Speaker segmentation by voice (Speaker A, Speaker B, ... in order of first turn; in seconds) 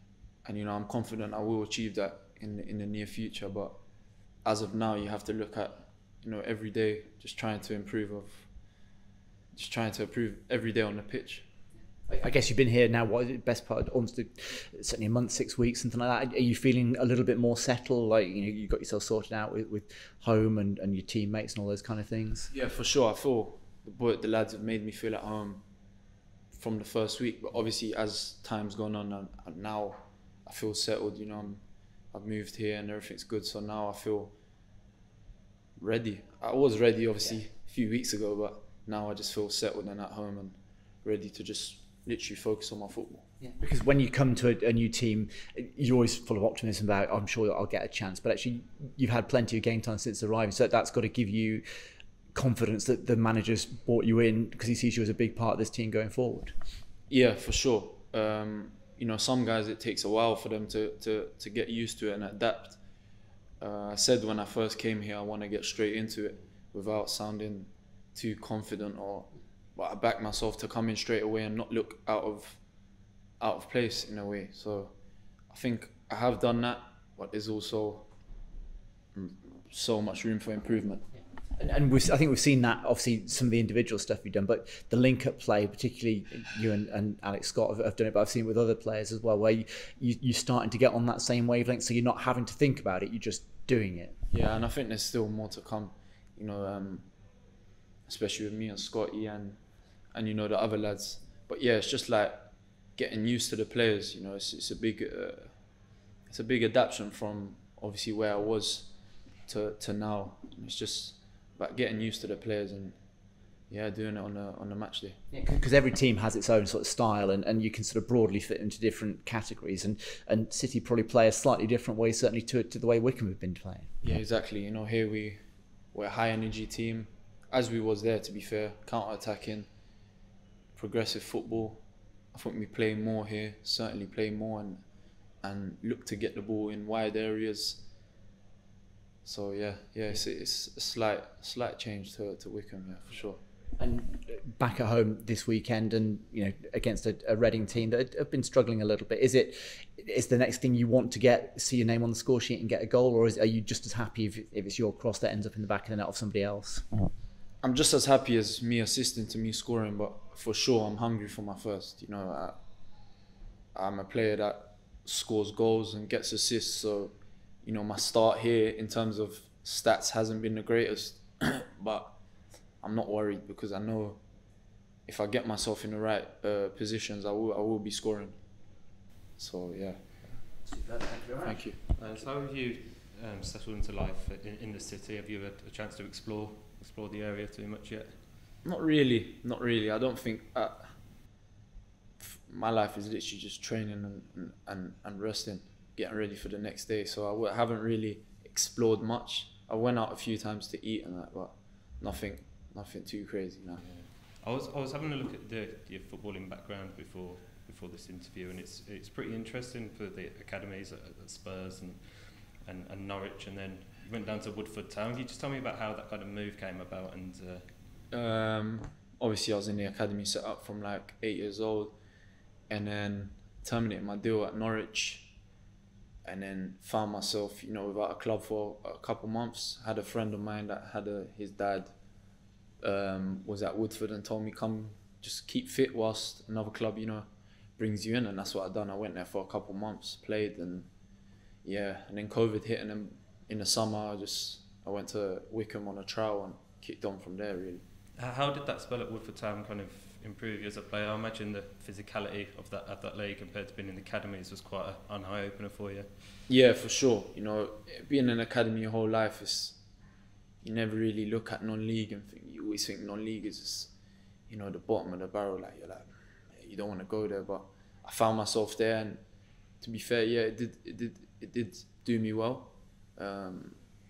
Speaker A: 0.4-3.8, 4.4-8.5, 9.5-11.5, 22.5-25.6, 26.5-34.3, 35.8-43.3, 57.1-62.8, 63.6-72.6, 73.4-74.9, 75.5-78.1, 79.1-81.0, 94.3-97.1, 98.1-99.6, 100.1-105.6, 106.3-108.9, 109.5-113.0, 113.7-115.2, 124.0-125.4, 125.9-129.7, 130.8-131.8, 132.3-134.8, 135.4-137.8, 139.2-143.4, 157.6-162.6, 163.7-172.2, 172.8-174.2, 175.1-178.4, 179.4-180.4, 181.4-181.8, 188.6-190.9, 192.2-203.8, 218.1-221.9, 222.7-225.3, 226.2-231.9, 232.8-240.9, 241.6-247.8, 256.5-259.8, 260.6-263.9, 264.5-269.2, 269.8-273.8
Speaker B: 12.1-22.5, 43.4-51.6, 52.3-56.5, 81.5-94.2, 115.3-123.9, 143.8-156.8, 180.6-181.6
Speaker C: 181.9-188.2, 203.8-217.7, 248.2-256.1